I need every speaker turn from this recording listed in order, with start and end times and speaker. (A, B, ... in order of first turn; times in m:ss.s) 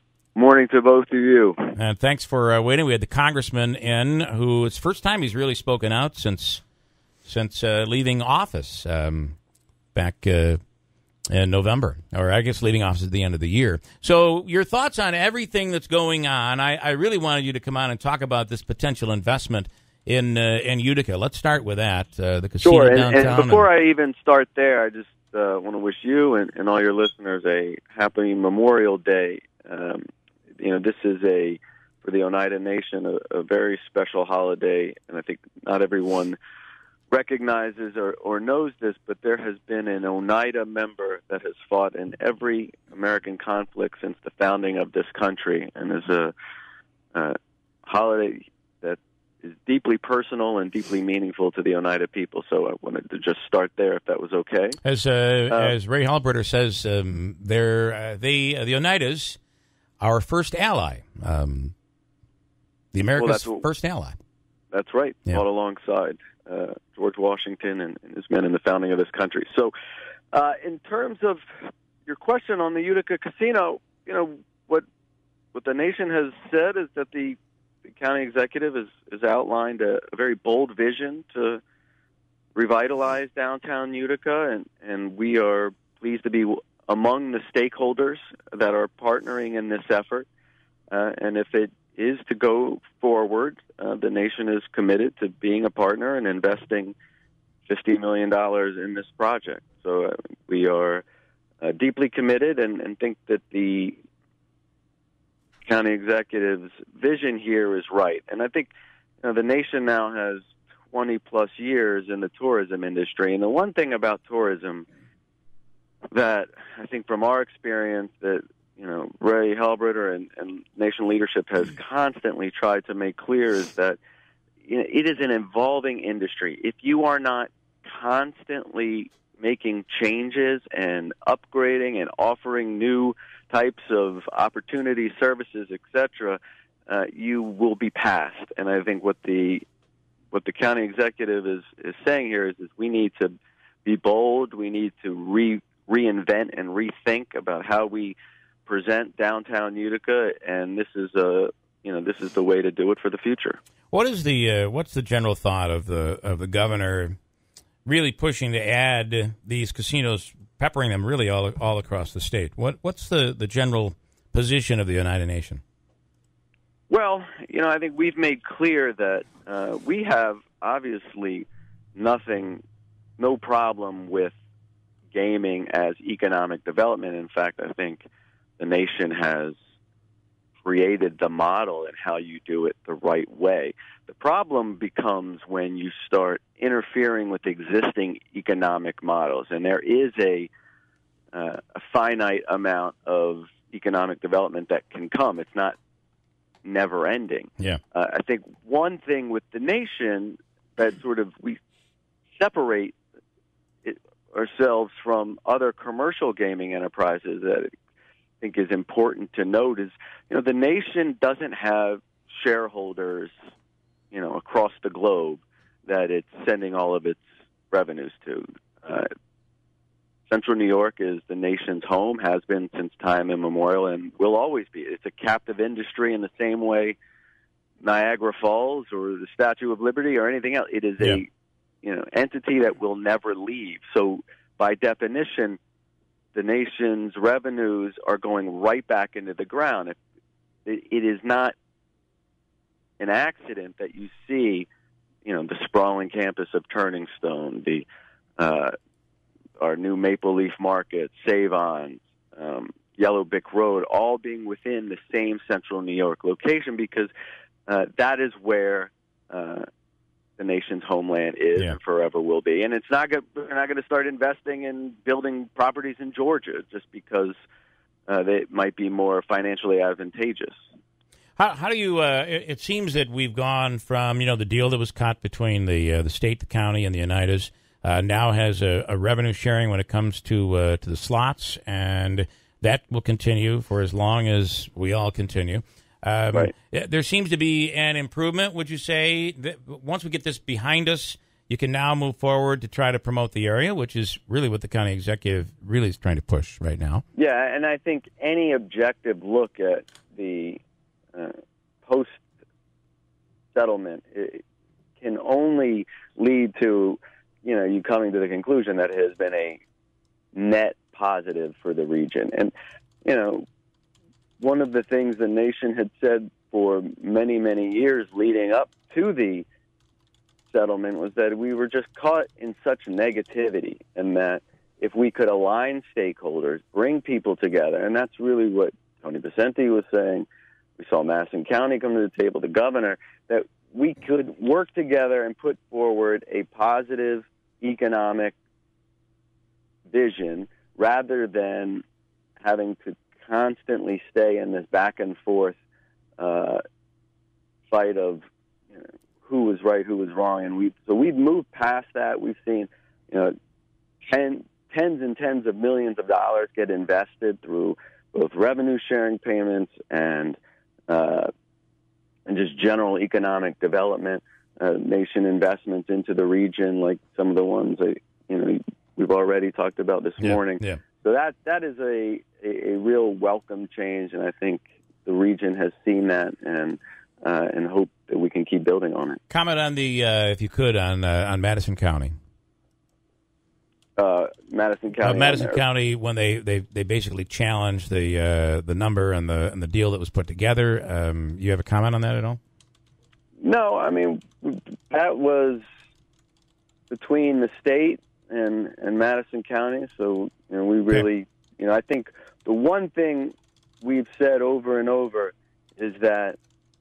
0:00.4-0:01.7 A
0:01.8-0:06.6 B
0:07.2-0:09.4 B
0:10.0-0:10.6 B
0:11.3-0:23.7 B
0:22.6-0:30.0 A
0:30.6-0:36.4 A
0:37.1-0:46.3 A
0:47.1-0:54.8 A
0:54.8-0:59.4 B
0:55.5-0:55.7 A
1:00.0-1:01.7 B
1:02.9-1:04.2 B
1:03.2-1:03.6 A
1:04.7-1:09.7 A
1:10.3-1:11.4 A
1:12.1-1:14.8 A
1:15.5-1:21.6 A
1:22.6-1:30.3 A
1:30.9-1:37.0 A
1:37.7-1:41.0 A
1:41.6-1:44.0 A
1:45.7-1:48.7 A
1:49.2-1:54.9 A
1:56.1-2:04.0 A
2:04.6-2:19.6 A
2:20.3-2:23.3 A
2:23.8-2:33.6 A
2:33.9-2:37.2 B
2:37.9-2:45.6 B
2:46.9-2:52.6 A
2:53.2-2:54.3 A
2:55.1-2:58.0 A
2:58.6-2:59.6 A
3:00.6-3:10.5 A
3:11.3-3:15.8 A
3:16.6-3:21.6 A
3:22.4-3:23.0 A
3:23.8-3:27.7 A
3:28.4-3:33.3 A
3:34.1-3:39.1 A
3:40.3-3:47.0 A
3:47.8-3:51.3 A
3:51.8-3:55.6 A
3:56.3-4:00.0 A
4:00.6-4:01.6 A
4:03.0-4:04.7 A
4:05.2-4:07.9 A
4:08.4-4:08.7 A
4:09.6-4:17.1 A
4:17.7-4:19.6 A
4:20.4-4:27.3 A
4:28.1-4:30.6 A
4:31.4-4:57.0 B
4:57.2-5:00.6 A
5:01.2-5:02.2 A
5:03.5-5:04.4 A
5:05.0-5:09.6 A
5:10.4-5:12.5 A
5:13.0-5:13.4 A
5:14.4-5:19.5 A
5:20.5-5:30.3 A
5:30.8-5:38.4 A
5:39.9-5:41.8 A
5:42.4-5:45.6 A
5:46.2-5:46.6 A
5:47.7-5:53.3 A
5:54.1-6:00.4 A
6:00.9-6:01.3 A
6:02.3-6:19.2 A
6:10.2-6:10.8 B
6:19.3-6:22.1 B
6:24.0-6:25.6 A
6:25.0-6:32.4 B
6:33.4-6:35.6 A
6:36.9-6:46.4 A